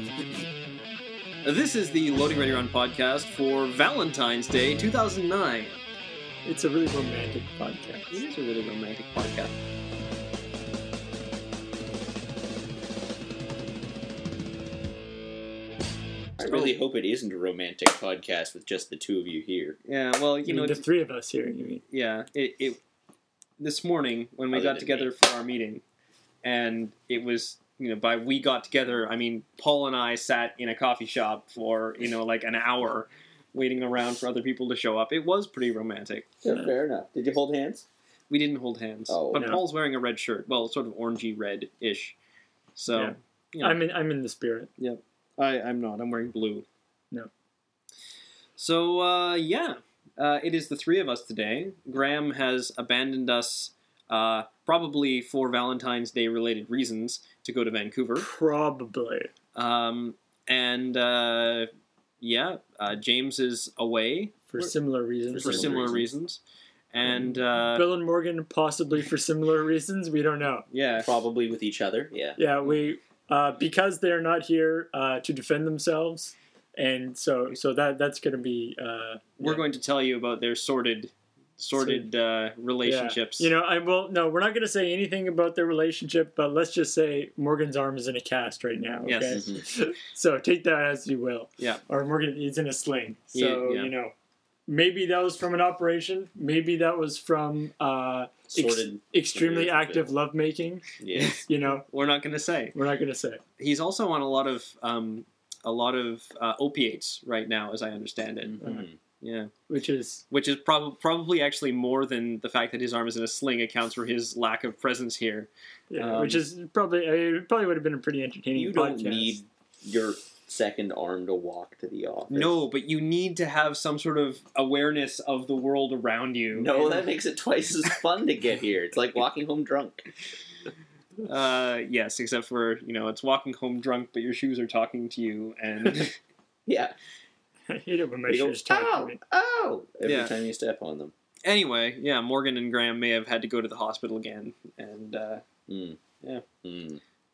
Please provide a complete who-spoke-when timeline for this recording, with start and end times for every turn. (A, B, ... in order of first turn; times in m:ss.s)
0:01.4-0:05.8 A
0:06.4-0:08.2 B
0:08.1-0:09.5 A
0:16.4-0:19.8 C
0:16.4-0:16.7 A
0:19.9-0:20.8 A
0:20.4-0:21.8 B
0:21.9-0:22.8 A
0:23.6-0:25.8 A
0:24.5-0:25.1 C
0:26.4-0:36.3 A
0:36.4-0:37.9 C
0:38.3-0:42.2 A
0:39.1-0:39.6 C
0:39.4-0:39.6 B
0:42.8-0:43.8 A
0:42.9-0:44.7 B
0:44.8-0:46.6 A
0:48.6-0:58.3 A
0:58.2-0:59.3 B
0:59.6-1:01.7 A
1:02.2-1:04.7 A
1:04.5-1:06.0 B
1:05.3-1:06.1 C
1:05.4-1:06.4 A
1:06.9-1:07.9 A
1:07.0-1:10.7 B
1:10.7-1:11.1 A
1:11.0-1:12.4 C
1:12.4-1:19.6 B
1:19.4-1:23.5 A
1:21.8-1:22.1 B
1:22.8-1:34.1 B
1:29.1-1:29.4 A
1:29.3-1:29.6 C
1:33.3-1:33.9 A
1:34.7-1:40.9 B
1:38.5-1:40.2 C
1:41.0-1:41.4 C
1:41.1-1:42.8 A
1:41.4-1:41.9 B
1:42.7-1:43.4 B
1:43.6-1:48.6 A
1:48.4-1:49.0 C
1:49.2-1:49.5 A
1:49.7-1:50.2 B
1:50.3-1:56.4 A
1:55.9-1:59.4 B
1:58.5-2:02.6 C
2:02.3-2:07.0 A
2:06.5-2:10.1 C
2:11.2-2:16.2 A
2:16.7-2:16.9 C
2:17.7-2:19.2 B
2:18.3-2:21.1 C
2:20.0-2:20.3 A
2:21.4-2:25.4 A
2:25.7-2:26.0 C
2:26.6-2:27.0 C